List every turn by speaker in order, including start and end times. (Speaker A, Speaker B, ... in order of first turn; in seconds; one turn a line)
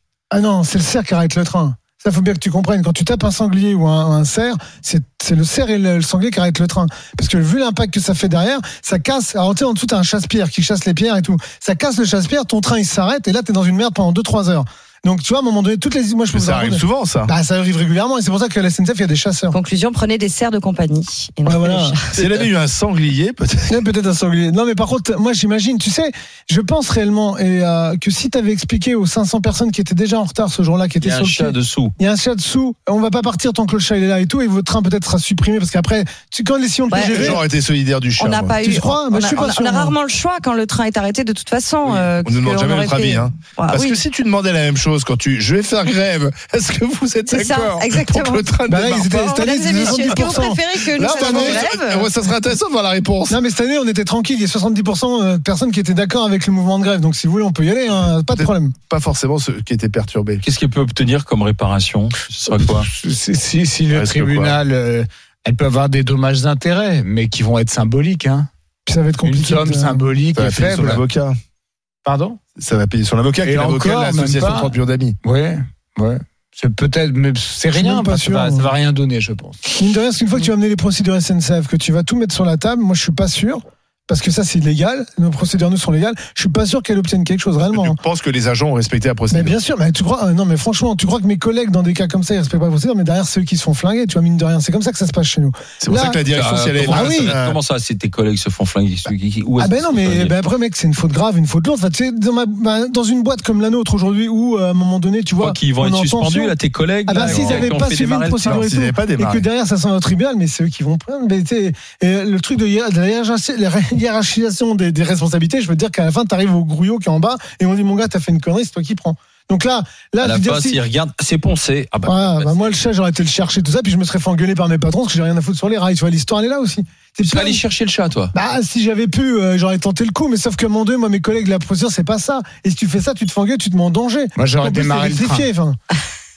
Speaker A: 0.3-19.6
Speaker B: 16.3-17.3
Speaker C: 19.5-22.2
Speaker A: 21.4-22.0
Speaker B: 22.1-23.8
Speaker A: 23.7-37.4
Speaker D: 31.0-31.9
Speaker C: 36.9-37.4
Speaker B: 37.0-38.6
Speaker C: 38.2-44.0
Speaker A: 38.6-40.0
Speaker B: 41.8-53.4
Speaker C: 47.3-48.5
Speaker A: 48.7-51.7
Speaker C: 49.1-52.1
Speaker A: 53.3-58.7
Speaker B: 58.1-60.4
Speaker D: 60.4-62.7
Speaker B: 62.6-62.9
Speaker E: 62.8-68.5
Speaker B: 63.9-64.6
Speaker A: 68.9-70.0
Speaker E: 69.2-71.0
Speaker B: 70.3-71.4
Speaker E: 72.0-72.4
Speaker B: 72.6-75.2
Speaker E: 73.4-79.8
Speaker A: 77.7-78.7
Speaker A: 79.8-88.0
Speaker B: 87.7-89.6
Speaker A: 89.3-96.2
Speaker B: 95.8-97.6
Speaker D: 96.3-100.3
Speaker A: 96.8-97.3
Speaker A: 99.6-106.5
Speaker D: 105.4-108.7
Speaker A: 107.1-120.8
Speaker B: 107.2-107.7
Speaker B: 108.4-109.5
Speaker D: 120.2-122.8
Speaker A: 122.0-127.6
Speaker D: 127.2-128.3
Speaker A: 128.3-135.8
Speaker E: 134.4-135.5